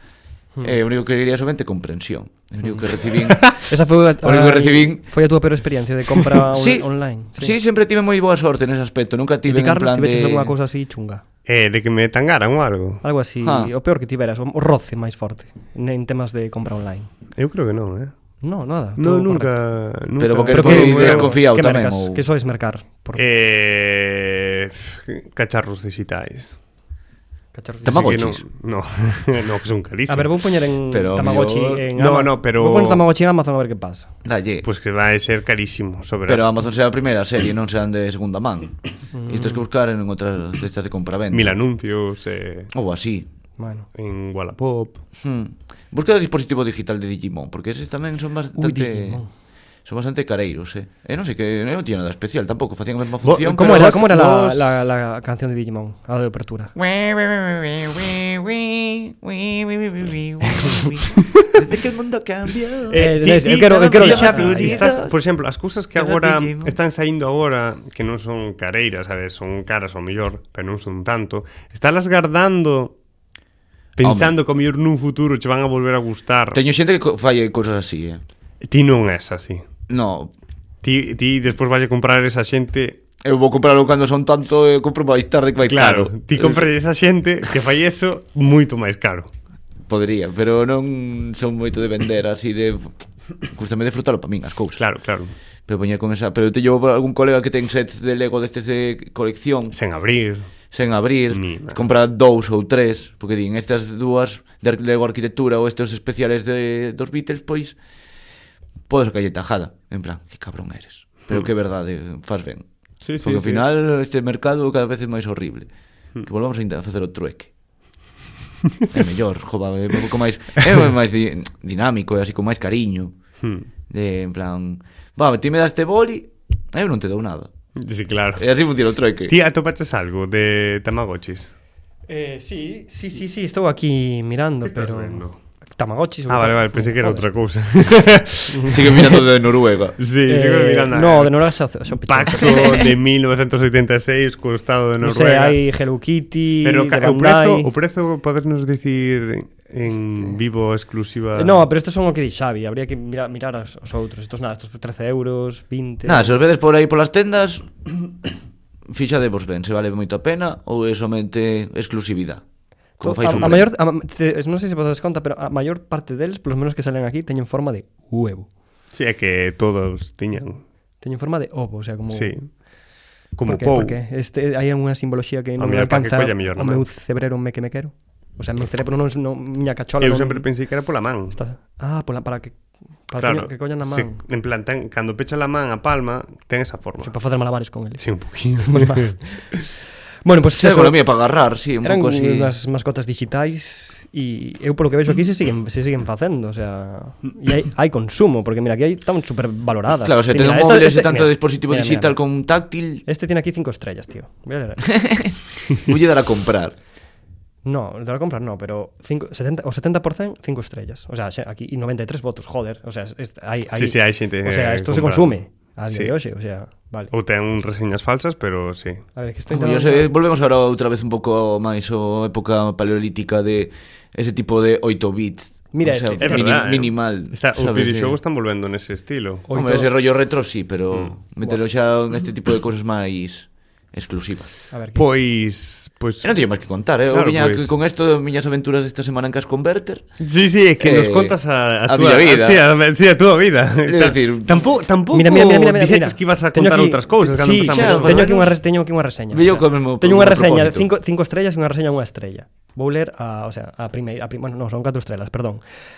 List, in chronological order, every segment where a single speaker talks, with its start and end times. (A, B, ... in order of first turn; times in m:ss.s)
0:00.6-0:03.6 A
0:03.2-0:03.6 B
0:03.6-0:07.6 C
0:04.2-0:05.0 A
0:06.5-0:10.5 A
0:09.5-0:11.2 C
0:11.5-0:13.0 B
0:13.0-0:17.1 C
0:13.4-0:13.7 A
0:17.4-0:18.1 B
0:18.4-0:19.6 C
0:19.0-0:21.3 B
0:20.2-0:22.2 A
0:20.5-0:23.2 C
0:23.2-0:26.6 B
0:27.5-0:28.1 C
0:27.8-0:28.4 A
0:27.9-0:30.3 B
0:30.1-0:34.1 C
0:30.9-0:31.8 A
0:32.0-0:33.0 B
0:34.2-0:34.7 A
0:34.6-0:36.5 B
0:36.3-0:41.6 A
0:39.1-0:39.6 C
0:41.3-0:42.7 B
0:42.7-0:43.3 A
0:43.6-0:43.9 C
0:44.0-0:45.0 B
0:45.2-0:49.2 A
0:48.6-0:49.3 C
0:49.9-0:54.0 A
0:53.2-0:54.8 B
0:53.5-0:56.8 C
0:56.8-1:03.1 A
1:02.9-1:13.0 B
1:02.9-1:05.0 C
1:03.9-1:05.2 A
1:06.0-1:06.8 A
1:14.0-1:16.6 B
1:14.0-1:14.4 A
1:16.5-1:18.2 A
1:18.6-1:19.6 B
1:19.9-1:20.3 A
1:20.8-1:23.0 B
1:23.2-1:26.7 A
1:25.7-1:29.3 B
1:29.9-1:32.9 A
1:33.5-1:34.8 A
1:34.8-1:35.3 B
1:35.7-1:39.8 A
1:39.7-1:40.5 B
1:40.7-1:47.8 A
1:41.3-1:41.9 B
1:48.9-1:52.7 A
1:53.0-1:53.6 B
1:53.2-1:55.7 A
1:56.2-1:57.5 A
1:58.9-2:03.2 A
2:03.4-2:03.7 B
2:03.9-2:07.5 A
2:07.8-2:08.5 B
2:08.4-2:09.4 A
2:09.3-2:11.5 B
2:12.1-2:15.2 C
2:14.7-2:15.4 B
2:15.8-2:17.2 C
2:16.3-2:19.1 B
2:18.5-2:19.2 C
2:18.7-2:20.0 A
2:20.0-2:25.6 B
2:20.3-2:23.0 C
2:25.0-2:27.7 C
2:26.6-2:31.6 B
2:29.9-2:30.4 C
2:31.4-2:36.3 C
2:36.0-2:38.1 A
2:38.9-2:42.4 A
2:43.0-2:43.7 A
2:43.0-2:48.5 C
2:43.3-2:43.6 B
2:48.9-2:50.6 B
2:51.0-2:52.4 C
2:52.1-2:52.4 B
2:53.4-2:54.0 B
2:53.5-3:00.5 C
2:55.6-2:56.8 B
3:00.0-3:01.4 B
3:01.3-3:02.6 C
3:03.1-3:04.2 C
3:03.2-3:07.1 B
3:07.0-3:08.0 C
3:08.0-3:09.2 B
3:08.6-3:09.5 C
3:10.2-3:11.0 C
3:10.6-3:12.5 A
3:11.8-3:22.2 C
3:20.0-3:23.0 A
3:23.1-3:24.8 C
3:24.9-3:26.8 A
3:27.6-3:37.1 C
3:33.8-3:35.4 B
3:37.1-3:39.0 B
3:39.2-3:40.1 C
3:39.5-3:48.2 A
3:45.7-3:46.7 C
3:46.2-3:49.4 B
3:49.5-3:49.9 C
3:49.5-3:54.5 A
3:54.7-3:55.0 C
3:55.0-3:56.3 B
3:56.2-4:00.0 A
3:57.1-3:57.7 B
4:00.2-4:08.4 B
4:00.8-4:02.7 A
4:03.8-4:04.6 A
4:05.1-4:15.6 C
4:07.7-4:08.5 A
4:09.3-4:10.9 A